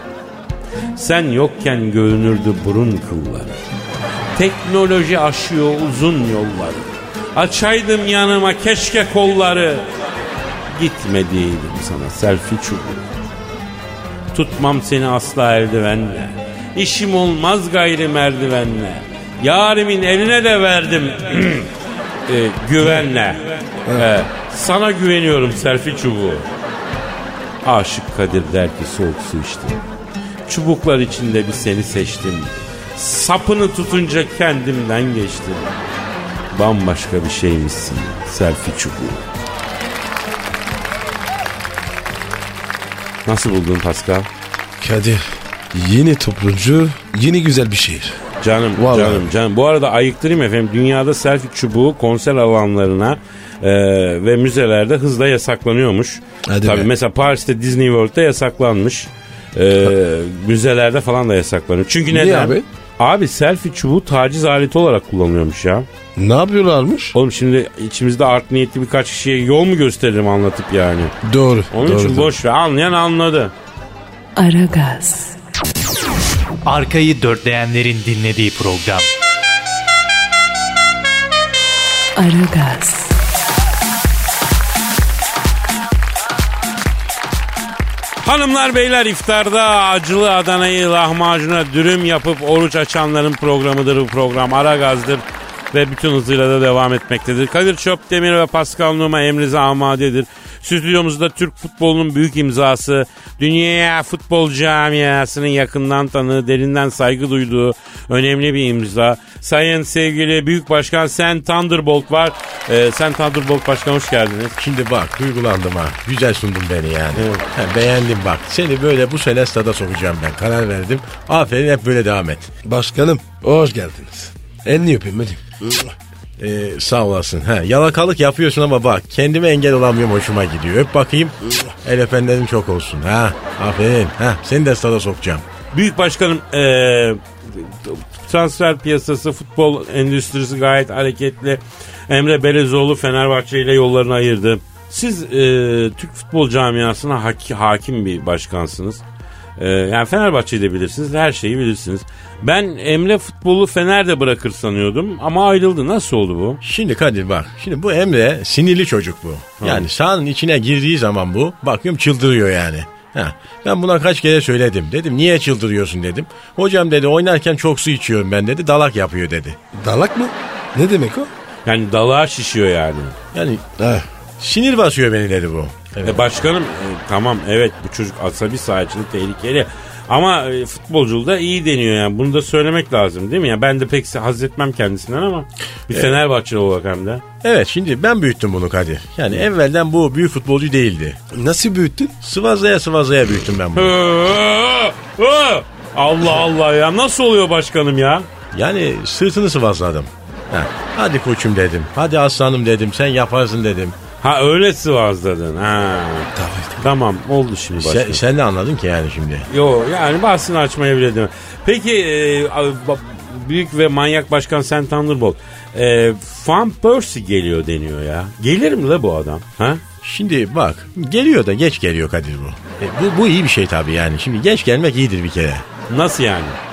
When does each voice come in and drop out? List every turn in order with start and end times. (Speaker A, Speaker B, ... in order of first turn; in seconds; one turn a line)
Speaker A: 0.9-3.6
Speaker A: 4.3-9.9
Speaker A: 10.7-13.1
Speaker A: 14.3-21.7
Speaker A: 22.3-26.4
Speaker A: 27.6-29.8
Speaker A: 30.5-35.7
Speaker A: 36.5-39.2
Speaker A: 43.2-44.3
Speaker B: 44.8-48.2
Speaker A: 48.4-65.9
Speaker B: 48.7-49.3
Speaker B: 56.5-56.9
Speaker B: 62.1-62.6
Speaker B: 66.2-67.1
Speaker A: 67.1-71.1
Speaker B: 71.2-72.3
Speaker A: 71.7-73.5
Speaker C: 74.3-75.3
Speaker D: 76.7-79.1
Speaker C: 82.2-83.1
Speaker A: 88.2-114.5
Speaker E: 114.6-122.5
Speaker A: 117.2-117.4
Speaker B: 122.6-125.9
Speaker E: 126.4-135.4
Speaker A: 135.7-149.0
Speaker A: 149.6-156.6
Speaker E: 156.6-169.6
Speaker A: 159.6-159.9
Speaker B: 169.7-171.3
Speaker A: 171.7-173.1
Speaker E: 173.3-173.6
Speaker B: 173.8-174.1
Speaker E: 174.4-176.4
Speaker A: 176.0-187.2
Speaker E: 187.4-191.2
Speaker B: 191.3-192.1
Speaker E: 192.2-193.9
Speaker A: 193.7-198.3
Speaker E: 198.5-203.9
Speaker A: 204.2-208.2
Speaker B: 206.3-206.8
Speaker E: 207.8-209.5
Speaker A: 209.5-219.8
Speaker E: 220.0-225.6
Speaker A: 225.9-226.6